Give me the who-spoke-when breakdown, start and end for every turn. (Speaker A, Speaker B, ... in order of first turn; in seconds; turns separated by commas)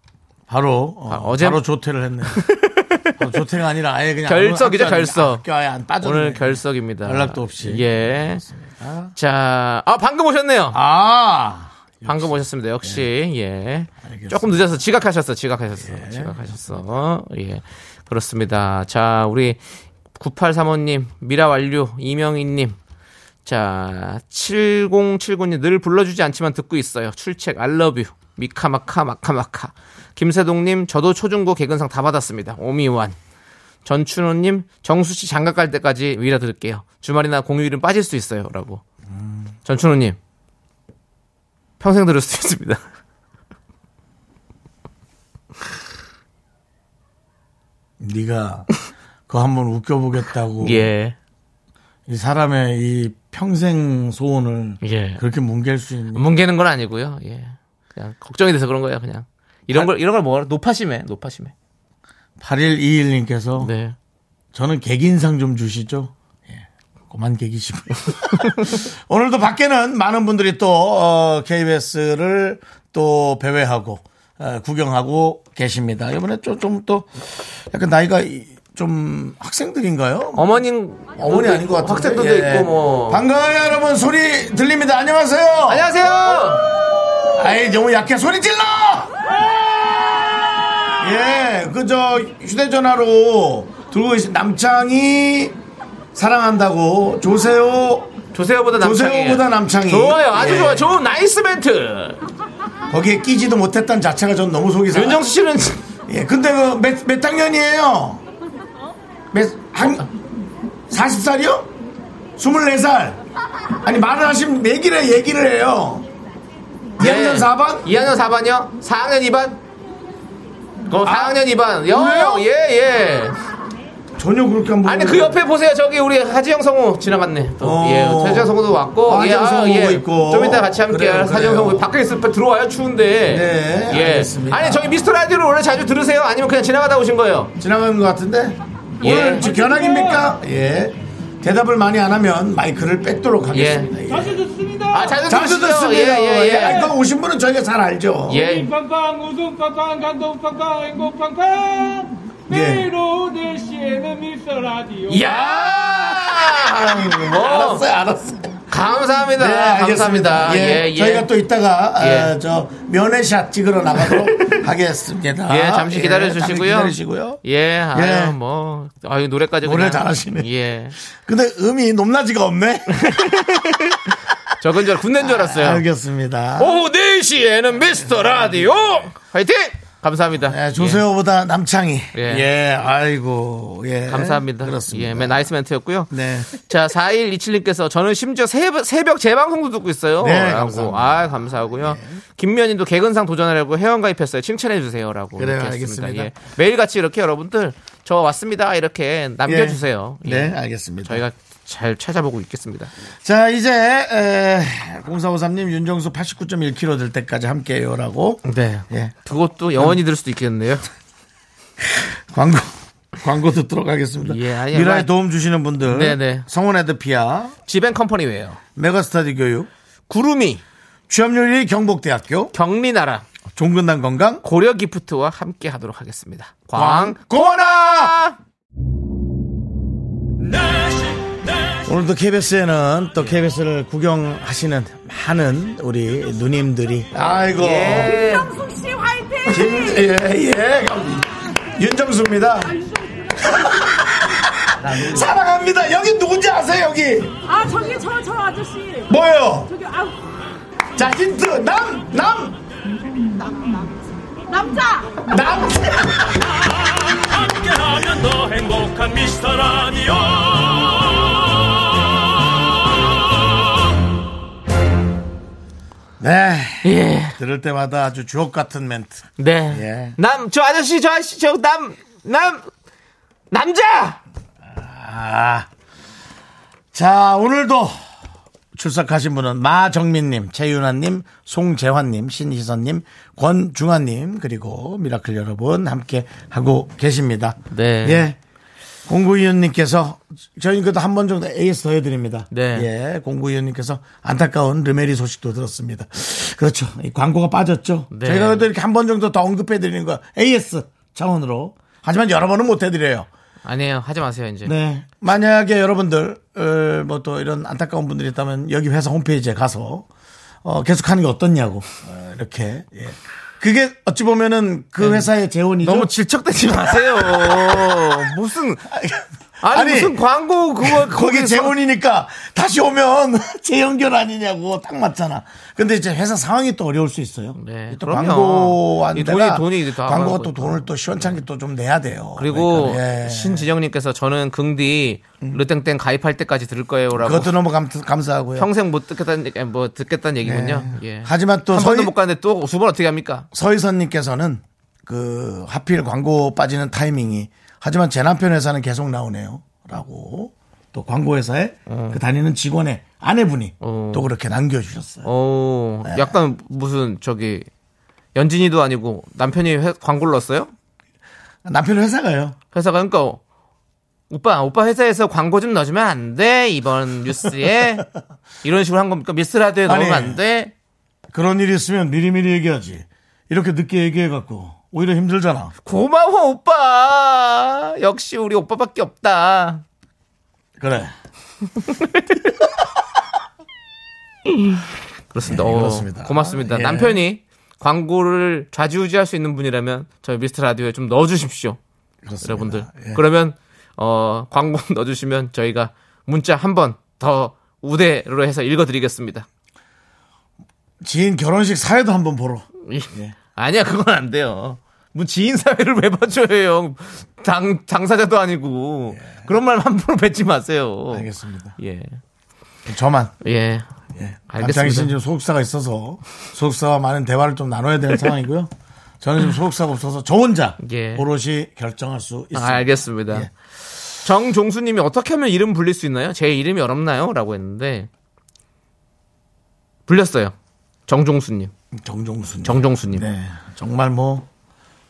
Speaker A: 0.5-2.5, Speaker B: 1.1-1.6, Speaker B: 2.3-3.2, Speaker A: 3.2-9.1, Speaker B: 4.3-5.4, Speaker B: 6.0-8.4, Speaker B: 9.2-10.8, Speaker A: 10.7-13.0, Speaker B: 12.1-19.6, Speaker A: 14.0-14.6, Speaker A: 15.8-16.5, Speaker B: 20.2-22.8, Speaker B: 23.4-33.2, Speaker B: 33.9-38.8, Speaker A: 39.1-39.5, Speaker B: 39.7-40.2, Speaker B: 41.8-42.8, Speaker A: 48.0-48.7, Speaker A: 49.3-50.9, Speaker B: 50.6-51.2, Speaker A: 52.1-56.3, Speaker B: 54.8-55.2, Speaker B: 56.1-61.5, Speaker A: 62.4-63.7, Speaker B: 63.6-64.0, Speaker A: 64.5-80.6, Speaker B: 80.4-83.2, Speaker A: 81.2-85.9, Speaker B: 85.7-86.7, Speaker A: 87.3-89.1, Speaker A: 91.0-95.5, Speaker A: 96.2-98.1, Speaker B: 98.3-102.2, Speaker A: 98.8-100.9, Speaker A: 102.9-105.3, Speaker B: 104.9-105.8, Speaker A: 106.1-108.2, Speaker A: 109.3-110.1, Speaker B: 109.8-110.0, Speaker A: 110.9-111.7, Speaker A: 112.4-113.2, Speaker A: 113.8-116.1, Speaker A: 117.0-117.9, Speaker B: 117.0-119.6, Speaker B: 120.9-123.4, Speaker A: 121.0-122.5, Speaker A: 124.2-125.4, Speaker B: 124.8-137.5, Speaker A: 127.6-131.9, Speaker A: 133.3-135.0, Speaker A: 137.6-144.5, Speaker B: 139.0-139.5, Speaker B: 143.5-143.9, Speaker B: 144.9-146.9, Speaker A: 145.0-148.5, Speaker B: 148.3-148.8, Speaker C: 149.0-149.2, Speaker C: 150.2-150.5, Speaker A: 152.5-152.9, Speaker C: 153.4-154.9, Speaker B: 155.0-157.8, Speaker A: 155.1-158.7, Speaker B: 158.7-161.3, Speaker A: 159.3-167.4, Speaker B: 162.0-162.3, Speaker B: 164.0-164.6, Speaker B: 165.5-171.0, Speaker A: 167.9-168.4, Speaker A: 169.6-170.5, Speaker A: 171.0-173.7, Speaker B: 172.9-174.0, Speaker B: 174.6-175.8, Speaker A: 175.2-176.8, Speaker B: 176.6-181.0, Speaker A: 177.8-179.1, Speaker A: 180.4-185.5, Speaker B: 182.1-182.5, Speaker B: 184.1-202.9, Speaker A: 186.1-186.6, Speaker A: 190.2-192.2, Speaker A: 195.4-196.3, Speaker A: 199.4-201.2, Speaker A: 203.2-209.2, Speaker B: 208.4-210.9, Speaker A: 211.9-217.6, Speaker B: 214.2-215.1, Speaker B: 215.8-216.5, Speaker B: 217.7-218.6, Speaker A: 218.8-219.7, Speaker B: 220.1-220.6, Speaker A: 221.1-222.5, Speaker B: 222.5-223.2, Speaker A: 223.6-224.4, Speaker B: 224.4-228.4, Speaker A: 226.7-228.2, Speaker D: 230.4-231.9, Speaker A: 231.9-238.3, Speaker B: 237.6-238.6, Speaker A: 239.4-242.8, Speaker A: 243.4-247.4, Speaker B: 244.8-245.3, Speaker A: 249.1-249.8, Speaker A: 250.9-252.6, Speaker A: 255.2-256.4, Speaker D: 256.6-261.6, Speaker A: 266.2-270.2, Speaker B: 266.8-267.4, Speaker B: 269.4-272.7, Speaker B: 273.5-274.2, Speaker A: 274.7-275.7, Speaker A: 276.9-278.0, Speaker A: 278.7-288.4, Speaker B: 287.7-288.3, Speaker A: 289.1-303.3, Speaker B: 292.5-292.9, Speaker B: 298.1-298.7, Speaker B: 303.6-304.7, Speaker A: 304.6-310.1, Speaker A: 310.6-316.1, Speaker B: 315.0-315.3, Speaker B: 315.8-318.9, Speaker A: 316.7-318.3, Speaker A: 318.9-320.2, Speaker B: 319.6-321.7, Speaker A: 320.8-333.7, Speaker B: 327.6-331.4, Speaker B: 332.4-337.5, Speaker A: 337.2-338.7, Speaker B: 338.6-343.5, Speaker A: 340.4-342.1, Speaker A: 343.5-355.3, Speaker B: 351.9-352.2, Speaker B: 353.8-354.3, Speaker B: 355.2-357.7, Speaker A: 356.0-356.4, Speaker B: 358.4-360.7, Speaker A: 361.6-362.6, Speaker B: 362.7-363.4, Speaker B: 364.3-368.1, Speaker B: 368.6-370.7, Speaker A: 369.9-370.4, Speaker A: 371.3-375.7, Speaker B: 375.9-379.8, Speaker A: 380.8-381.1, Speaker B: 382.0-382.5, Speaker B: 384.5-391.8, Speaker A: 385.4-387.2, Speaker A: 392.2-393.2, Speaker B: 392.4-399.5, Speaker A: 401.0-403.4, Speaker B: 402.8-412.2, Speaker A: 411.1-411.8, Speaker A: 412.9-413.4, Speaker B: 413.4-413.9, Speaker A: 414.1-423.5, Speaker B: 414.5-415.1, Speaker B: 420.8-421.2, Speaker B: 422.5-423.5, Speaker B: 424.2-428.1, Speaker B: 430.1-430.5, Speaker B: 431.1-431.7, Speaker A: 431.9-434.5, Speaker B: 432.6-433.3